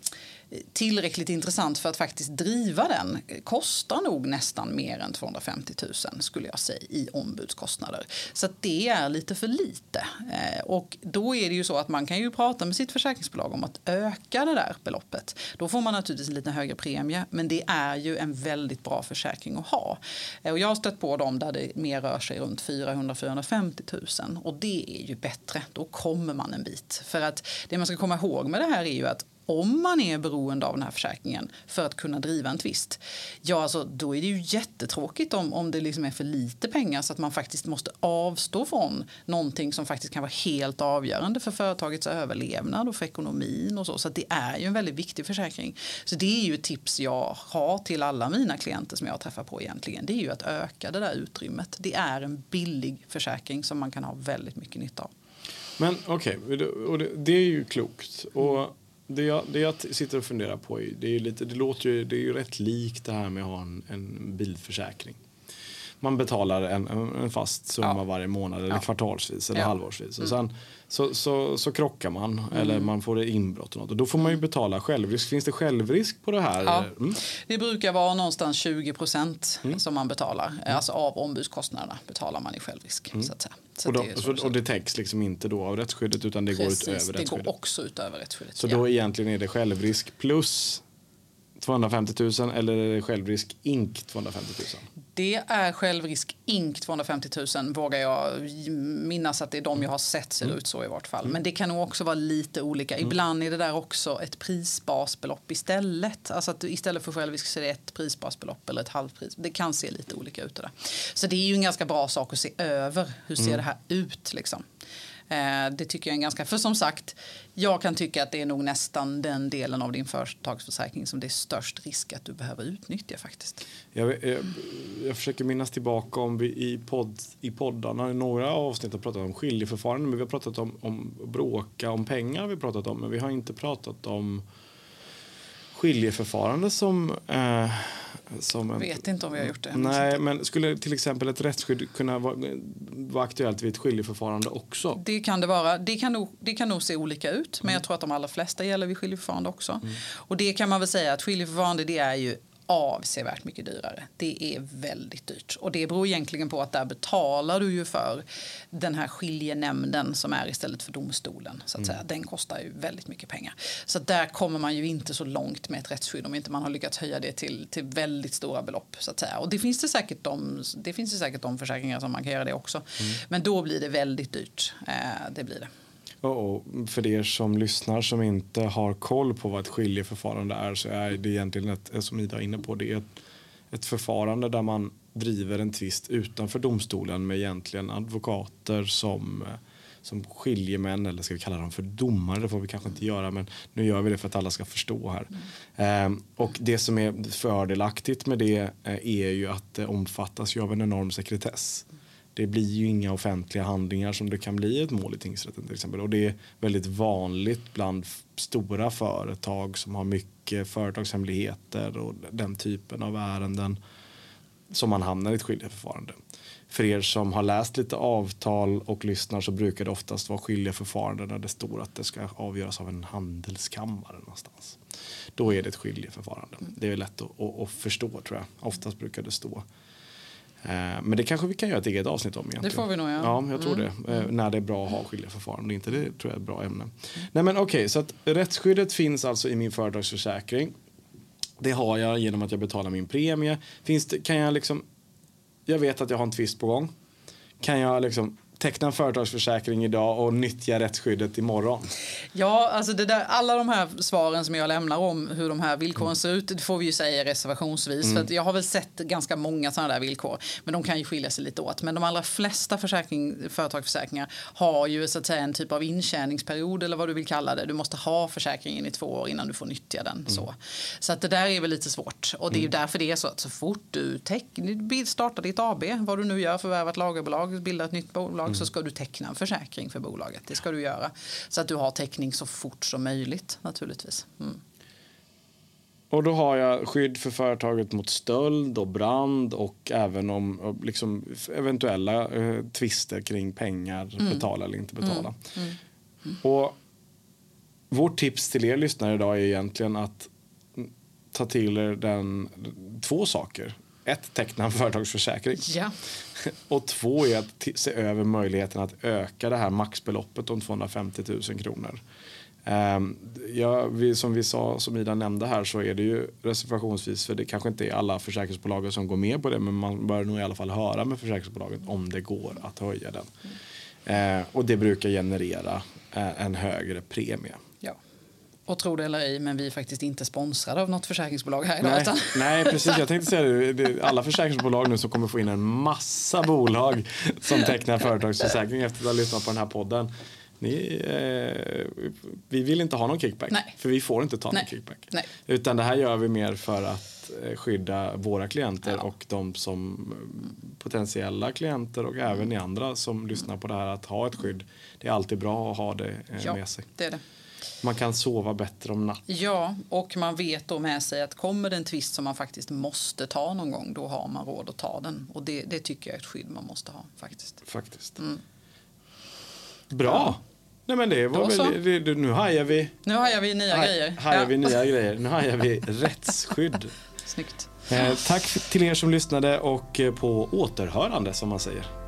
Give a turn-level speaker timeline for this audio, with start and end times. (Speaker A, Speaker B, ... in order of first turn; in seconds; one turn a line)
Speaker A: 0.5-55.1
Speaker B: 55.8-65.2
Speaker B: 66.0-77.2
Speaker A: 76.6-84.5
Speaker B: 83.8-87.5
Speaker A: 86.5-88.8
Speaker B: 88.6-90.8
Speaker B: 91.6-94.8
Speaker A: 95.1-114.6
Speaker A: 115.3-123.6
Speaker B: 123.9-134.4
Speaker B: 135.7-145.0
Speaker A: 138.8-140.2
Speaker A: 144.9-175.7
Speaker B: 176.2-183.0
Speaker B: 183.7-213.8
Speaker B: 214.7-216.2
Speaker B: 216.7-224.8
Speaker B: 225.3-229.6
Speaker B: 230.6-240.7
Speaker A: 232.6-233.9
Speaker B: 241.6-244.8
Speaker B: 245.7-246.9
Speaker B: 247.6-251.9
Speaker A: 252.3-284.6
Speaker B: 286.1-295.4
Speaker A: 294.2-294.4
Speaker A: 295.0-295.8
Speaker B: 296.4-296.8
Speaker B: 297.9-305.7
Speaker A: 305.6-305.9
Speaker B: 306.4-312.0
Speaker B: 312.6-323.3
Speaker B: 324.1-327.6
Speaker A: 328.7-333.0
Speaker B: 331.8-340.1
Speaker B: 340.6-356.9
Speaker A: 344.5-345.3
Speaker A: 356.4-357.2
Speaker B: 357.8-359.2
Speaker A: 359.3-367.6
Speaker B: 367.6-368.2
Speaker B: 369.9-372.9
Speaker A: 371.3-371.8
Speaker A: 373.0-374.8
Speaker B: 373.7-376.9
Speaker A: 377.2-377.8
Speaker B: 377.9-381.9